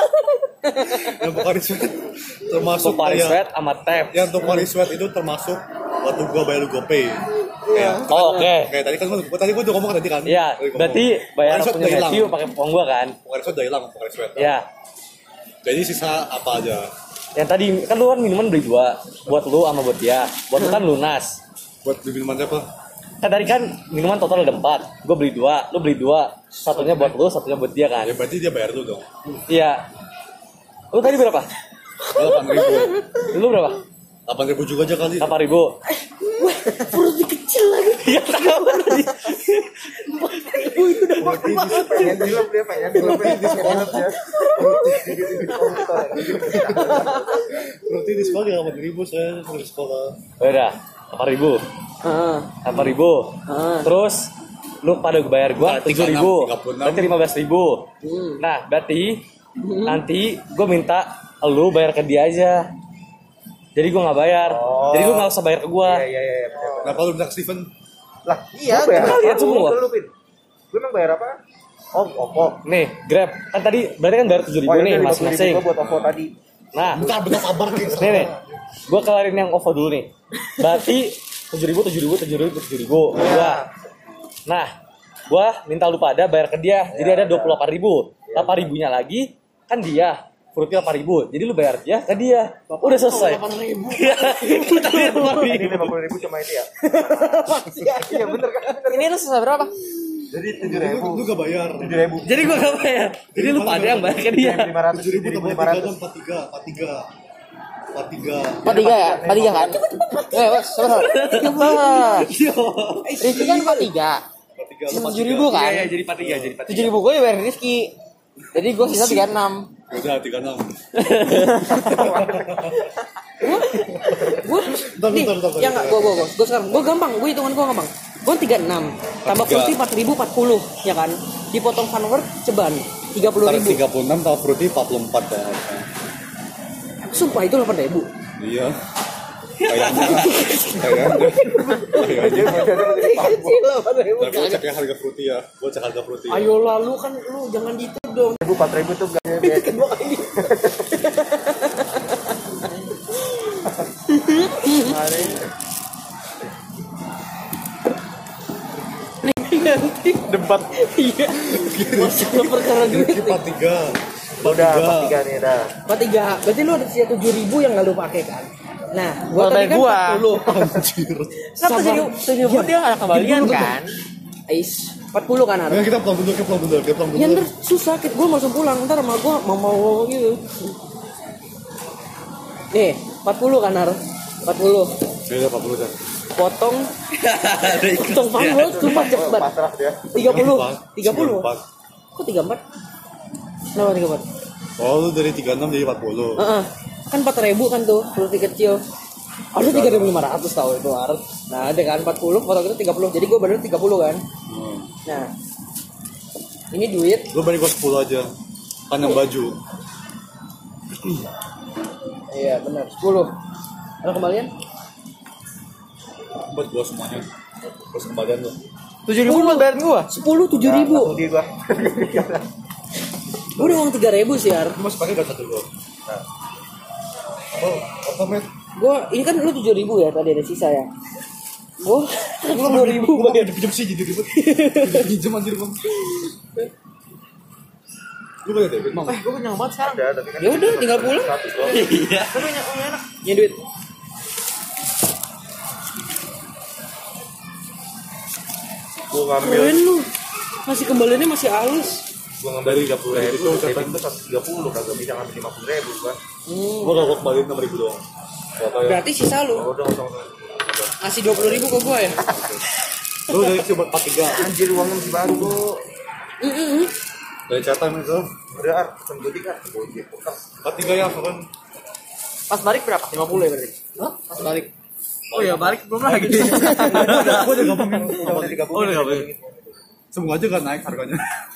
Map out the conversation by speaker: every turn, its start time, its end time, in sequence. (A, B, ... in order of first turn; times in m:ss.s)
0:00.8-0:03.4 A
0:02.7-0:04.4 B
0:04.1-0:12.4 A
0:07.7-0:08.0 C
0:08.1-0:08.7 B
0:10.2-0:13.2 B
0:13.2-0:14.6 A
0:14.4-0:14.7 B
0:15.6-0:16.9 A
0:17.4-0:21.4 B
0:21.8-0:22.7 A
0:23.2-0:28.2 B
0:26.7-0:27.1 A
0:28.0-0:29.1 A
0:29.5-0:29.8 B
0:30.9-0:31.5 B
0:32.1-0:33.0 A
0:32.4-0:32.8 D
0:33.2-0:33.8 B
0:34.3-0:35.4 A
0:35.2-0:35.8 B
0:36.2-0:39.1 D
0:38.0-0:40.0 B
0:40.0-0:42.2 D
0:41.1-0:47.6 E
0:41.2-0:42.4 A
0:42.9-0:44.0 A
0:43.0-0:47.4 D
0:44.5-0:45.6 A
0:46.2-0:50.2 A
0:50.4-0:51.6 B
0:52.0-0:52.6 D
0:52.6-0:54.3 B
0:53.4-0:53.9 D
0:54.8-0:57.9 B
0:55.6-0:57.1 A
0:58.0-0:58.4 D
0:58.4-0:59.2 B
0:59.6-1:00.0 D
0:59.8-1:02.7 B
1:03.8-1:06.1 B
1:04.4-1:07.0 E
1:06.8-1:07.7 A
1:08.2-1:10.1 E
1:08.6-1:09.2 C
1:08.9-1:09.8 B
1:10.7-1:11.4 E
1:11.9-1:12.6 E
1:12.6-1:15.7 B
1:14.6-1:16.3 E
1:15.8-1:16.2 A
1:16.7-1:17.1 B
1:16.9-1:17.8 E
1:16.9-1:18.6 A
1:17.9-1:18.3 B
1:18.9-1:23.6 B
1:23.1-1:23.6 C
1:23.2-1:23.4 E
1:25.3-1:35.9 B
1:26.9-1:27.6 E
1:28.3-1:28.7 E
1:32.8-1:34.6 C
1:34.4-1:35.2 D
1:34.7-1:39.1 E
1:36.9-1:38.0 C
1:37.4-1:38.2 D
1:38.8-1:39.7 C
1:40.3-1:42.6 E
1:40.6-1:42.1 A
1:42.2-1:44.7 B
1:43.3-1:47.1 A
1:44.3-1:46.0 E
1:47.9-1:48.9 A
1:48.6-1:49.8 E
1:48.6-1:52.3 C
1:50.9-1:53.6 B
1:53.1-1:54.2 C
1:54.6-1:55.6 A
1:54.9-1:55.9 C
1:55.5-1:57.0 B
1:56.2-1:56.6 A
1:56.7-1:57.9 C
1:58.5-1:59.7 C
1:58.8-1:59.2 A
1:59.9-2:00.8 A
2:00.9-2:02.1 B
2:01.7-2:02.9 A
2:01.9-2:02.7 E
2:03.4-2:13.8 D
2:04.0-2:06.3 A
2:09.2-2:09.8 A
2:13.4-2:15.9 A
2:17.0-2:18.1 D
2:18.4-2:18.8 A
2:19.6-2:22.8 A
2:19.7-2:22.1 D
2:22.0-2:23.6 E
2:22.8-2:24.6 D
2:24.1-2:26.6 A
2:26.3-2:28.4 D
2:28.4-2:30.9 E
2:29.4-2:32.0 D
2:34.1-2:35.0 D
2:34.8-2:35.4 E
2:34.8-2:35.4 C
2:39.2-2:43.4 D
2:41.5-2:45.2 A
2:44.4-2:45.7 E
2:45.9-2:50.5 D
2:49.3-2:50.3 C
2:50.2-2:51.3 A
2:51.6-2:53.9 C
2:51.6-2:52.8 D
2:53.3-2:53.7 D
2:54.5-2:55.8 D
2:55.7-2:57.5 A
2:57.1-3:00.4 D
3:02.7-3:05.0 D
3:05.2-3:06.0 A
3:06.3-3:06.9 D
3:07.2-3:09.1 B
3:07.8-3:09.5 D
3:08.4-3:10.1 E
3:10.1-3:11.5 D
3:10.1-3:11.6 A
3:12.1-3:12.6 D
3:13.7-3:14.3 D
3:14.8-3:16.5 A
3:16.4-3:18.8 D
3:19.6-3:24.2 D
3:19.6-3:20.2 A
3:24.5-3:24.9 A
3:25.1-3:25.3 D
3:26.7-3:27.2 D
3:27.3-3:28.3 A
3:28.9-3:29.6 A
3:32.3-3:33.3 D
3:34.0-3:34.5 D
3:36.5-3:37.3 A
3:37.9-3:38.6 A
3:39.1-3:40.1 C
3:39.2-3:39.6 D
3:40.1-3:41.2 D
3:40.4-3:42.4 E
3:43.6-3:44.8 D
3:44.7-3:45.7 A
3:47.5-3:48.5 A
3:48.8-3:50.9 D
3:51.8-3:53.5 D
3:52.4-3:55.9 A
3:54.3-3:55.1 D
3:58.4-3:59.2 A
3:59.0-4:00.0 C
3:59.9-4:02.0 E
4:00.4-4:01.3 D
4:01.6-4:03.1 C
4:01.6-4:02.4 B
4:03.2-4:03.6 D
4:09.1-4:09.8 E
4:09.4-4:10.1 D
4:10.6-4:12.1 D
4:12.4-4:16.2 E
4:12.6-4:14.0 A
4:16.4-4:17.0 D
4:16.8-4:18.0 A
4:18.6-4:19.1 A
4:18.8-4:19.6 D
4:19.5-4:21.6 E
4:21.0-4:22.2 D
4:21.3-4:22.6 A
4:23.3-4:24.5 A
4:24.3-4:25.8 E
4:26.4-4:26.9 D
4:27.5-4:28.3 A
4:28.6-4:30.4 E
4:30.6-4:31.5 A
4:32.5-4:33.8 C
4:34.0-4:34.4 A
4:34.3-4:34.7 C
4:35.3-4:38.0 C
4:35.3-4:39.1 A
4:36.1-4:39.8 E
4:38.7-4:39.3 B
4:40.1-4:41.2 A